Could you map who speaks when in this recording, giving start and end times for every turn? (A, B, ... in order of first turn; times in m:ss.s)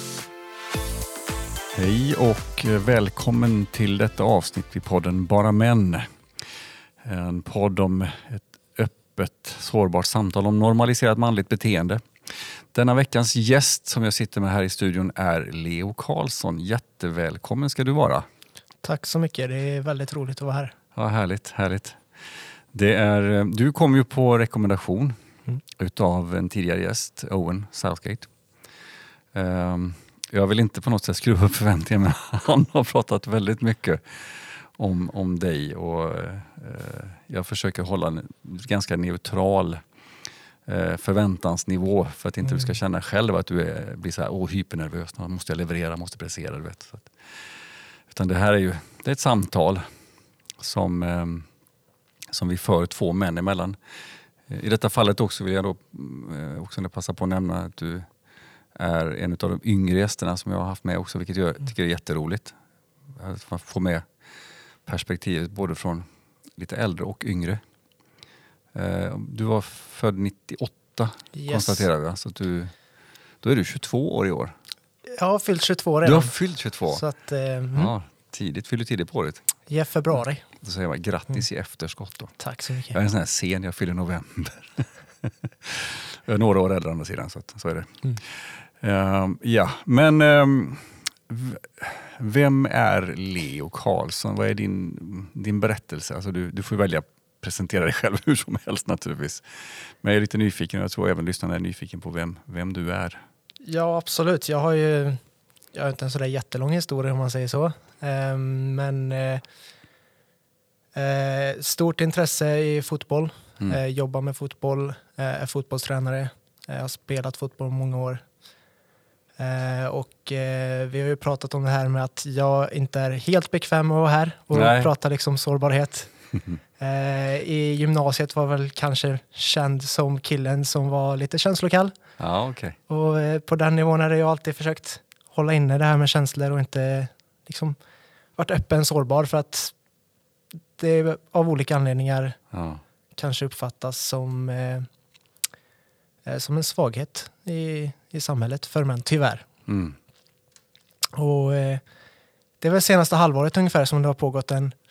0:01.8-0:06.1 A
0:07.0-0:18.3 A
0:18.8-0:20.8 B
0:21.0-0:22.0 A
0:22.7-0:25.2 A
0:25.8-0:28.3 A
0:29.3-0:39.8 A
0:40.7-0:47.1 A
0:48.1-0:49.9 A
0:50.6-0:51.5 A
0:52.3-0:53.8 A
0:54.5-0:58.1 A
0:58.8-1:02.6 A
1:03.2-1:04.1 A
1:04.8-1:06.1 A
1:06.6-1:07.6 A
1:08.7-1:12.7 A
1:11.3-1:11.9 B
1:13.4-1:14.5 A
1:15.1-1:16.4 B
1:16.0-1:17.0 A
1:16.9-1:17.9 B
1:17.7-1:19.5 A
1:19.7-1:20.4 B
1:20.6-1:22.4 A
1:22.4-1:23.0 B
1:22.9-1:43.2 A
1:43.6-1:45.2 B
1:45.7-1:49.4 B
1:51.0-1:58.2 B
1:59.4-2:06.1 B
2:04.5-2:04.9 A
2:06.8-2:12.0 B
2:12.2-2:12.8 A
2:12.9-2:17.8 B
2:18.4-2:19.7 B
2:20.8-2:22.4 B
2:22.5-2:22.8 A
2:23.2-2:24.9 B
2:26.2-2:29.5 B
2:29.7-2:30.0 A
2:31.1-2:31.8 B
2:32.6-2:34.8 B